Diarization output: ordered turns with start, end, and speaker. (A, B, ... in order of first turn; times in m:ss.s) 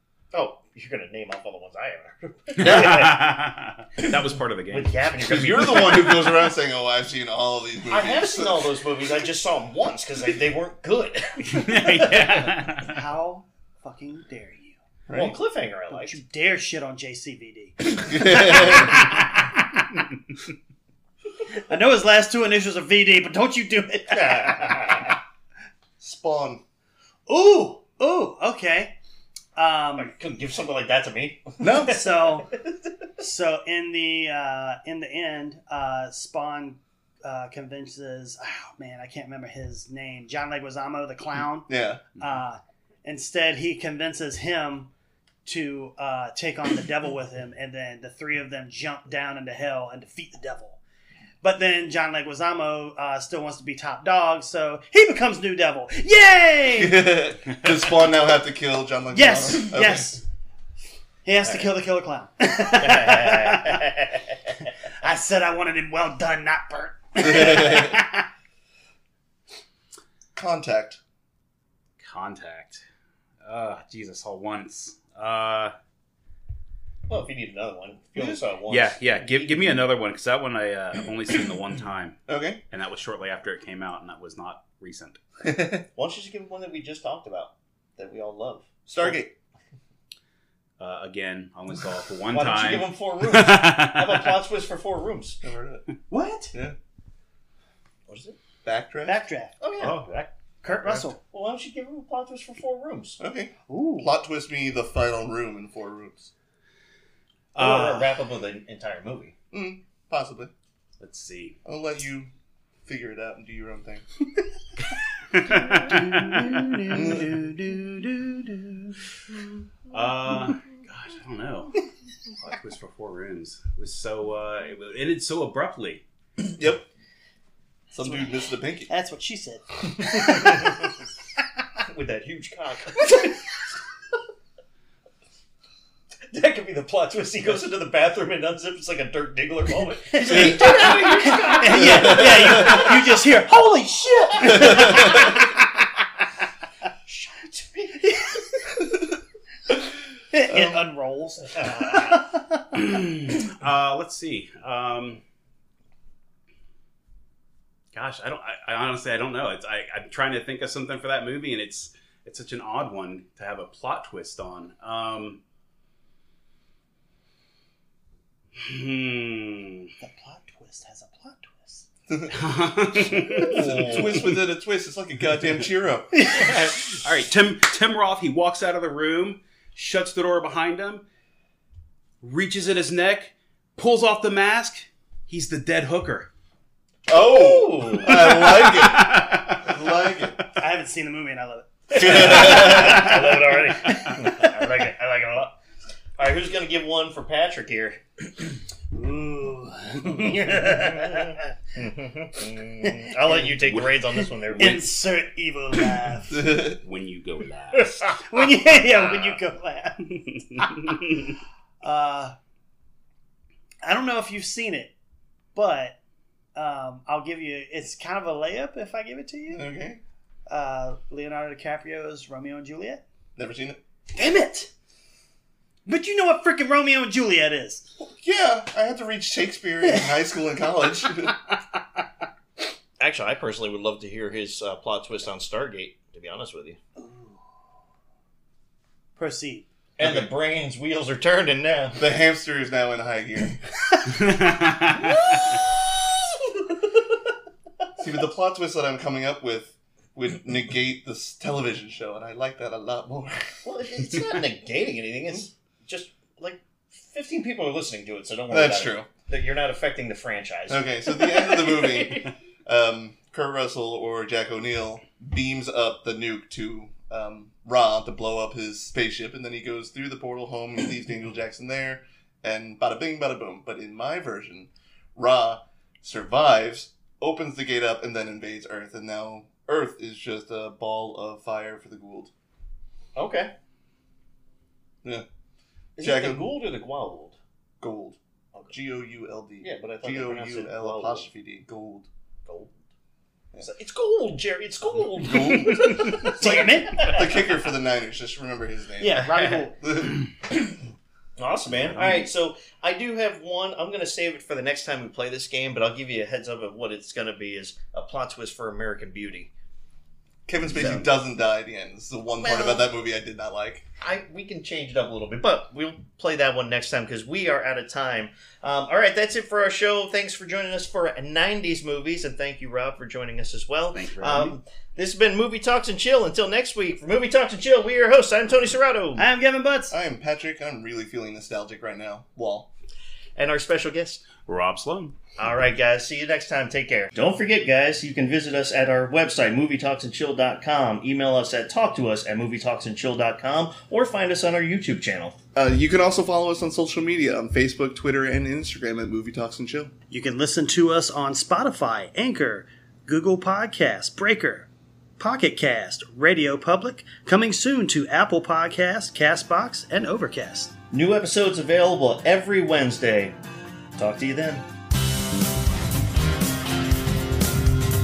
0:00.3-0:03.4 A
0:02.6-0:05.3 B
0:04.7-0:06.4 A
0:05.2-0:08.8 C
0:07.9-0:12.6 A
0:11.4-0:13.0 B
0:12.8-0:14.8 D
0:15.1-0:15.3 C
0:15.1-0:16.2 A
0:15.9-0:17.8 D
0:17.9-0:19.1 C
0:18.3-0:19.8 D
0:21.5-0:25.0 D
0:24.1-0:25.2 A
0:26.0-0:26.6 C
0:27.3-0:28.9 D
0:29.6-0:30.1 D
0:30.0-0:32.9 A
0:31.6-0:32.0 C
0:31.8-0:32.5 D
0:33.2-0:44.9 D
0:41.7-0:42.0 C
0:45.4-0:50.8 D
0:51.4-0:57.1 D
0:56.8-1:00.1 C
0:59.1-1:00.2 D
1:01.2-1:03.9 D
1:02.7-1:04.5 A
1:05.0-1:08.2 D
1:07.2-1:08.0 C
1:10.3-1:11.0 C
1:12.0-1:12.8 B
1:13.4-1:15.7 B
1:17.1-1:19.8 A
1:18.7-1:22.2 B
1:22.3-1:22.6 C
1:22.7-1:25.2 B
1:25.4-1:25.8 C
1:25.9-1:29.2 A
1:28.9-1:29.3 C
1:30.8-1:34.4 B
1:32.3-1:35.4 A
1:35.4-1:35.9 C
1:36.1-1:36.5 D
1:38.1-1:38.4 A
1:38.6-1:39.2 C
1:39.0-1:39.5 D
1:39.6-1:40.0 A
1:39.8-1:40.3 B
1:40.6-1:41.2 D
1:41.2-1:43.2 A
1:43.2-1:46.3 C
1:43.7-1:44.1 D
1:47.5-1:48.1 B
1:47.6-1:49.4 A
1:49.5-1:50.5 C
1:51.0-1:51.6 B
1:51.6-1:52.3 C
1:52.8-1:54.0 C
1:55.3-1:56.6 B
1:55.8-1:57.9 D
1:56.9-1:57.4 C
1:59.9-2:01.8 B
2:02.4-2:06.0 B
2:06.4-2:06.8 C
2:07.9-2:08.9 C
2:08.9-2:10.9 D
2:10.0-2:10.9 A
2:11.8-2:13.4 A
2:16.3-2:22.9 A
2:20.1-2:25.6 D
2:20.3-2:20.9 C
2:21.7-2:22.9 C
2:24.3-2:25.2 A
2:24.6-2:25.1 C
2:27.0-2:28.2 A
2:30.3-2:32.6 D
2:30.5-2:30.9 C
2:31.5-2:32.2 A
2:32.7-2:35.2 B
2:37.9-2:45.4 B
2:48.6-2:49.9 B
2:50.0-2:51.8 D
2:52.3-2:54.2 B
2:53.1-2:54.3 A
2:53.1-2:53.6 D
2:53.3-2:56.3 C
2:56.1-2:56.6 D
2:56.2-3:01.0 B
3:02.2-3:06.3 B
3:07.1-3:10.4 C
3:07.1-3:08.6 A
3:08.1-3:09.8 B
3:10.5-3:14.5 D
3:11.9-3:15.6 A
3:12.0-3:13.0 C
3:16.2-3:18.2 A
3:18.9-3:21.4 D
3:20.4-3:24.9 A
3:22.8-3:23.5 D
3:23.6-3:24.9 B
3:24.6-3:26.4 D
3:26.3-3:26.8 C
3:26.5-3:28.2 B
3:27.7-3:29.4 A
3:28.3-3:31.0 D
3:30.1-3:31.3 B
3:31.8-3:32.4 D
3:33.8-3:34.9 D
3:35.5-3:36.0 D
3:36.5-3:39.7 D
3:39.5-3:40.0 C
3:40.5-3:43.0 D
3:43.4-3:43.8 C
3:44.1-3:44.7 D
3:45.8-3:47.9 D
3:48.0-3:51.4 C
3:53.0-3:56.8 A
3:57.0-3:57.4 D
3:59.2-3:59.7 D
4:00.0-4:02.0 A
4:00.0-4:00.3 C
4:02.0-4:03.6 C
4:04.1-4:05.2 B
4:05.0-4:06.8 A
4:08.0-4:13.6 C
4:13.6-4:22.3 A
4:18.5-4:19.1 C
4:20.7-4:42.3 C
4:43.1-4:43.5 A
4:46.0-4:47.4 A
4:46.0-4:46.5 C
4:47.8-4:48.2 C
4:48.7-4:52.1 C
4:49.6-4:51.3 A
4:52.4-4:52.7 A
4:53.6-4:57.6 A
4:55.2-4:56.3 C
4:55.8-4:56.1 B
4:56.2-4:57.2 D
4:57.0-5:00.3 C
4:59.0-4:59.8 D
4:59.1-4:59.7 A
5:00.5-5:00.8 A
5:01.4-5:09.5 A
5:01.9-5:02.3 B
5:10.4-5:13.8 C
5:10.7-5:11.1 A
5:12.4-5:12.8 A
5:14.0-5:29.2 A
5:23.9-5:24.6 B
5:29.2-5:29.9 D
5:29.9-5:32.7 C
5:33.4-5:34.3 A
5:34.4-5:35.2 B
5:35.4-5:45.4 A
5:45.5-5:49.9 C
5:50.1-5:54.7 D
5:55.2-6:00.7 D
6:00.9-6:03.4 A
6:04.0-6:04.7 A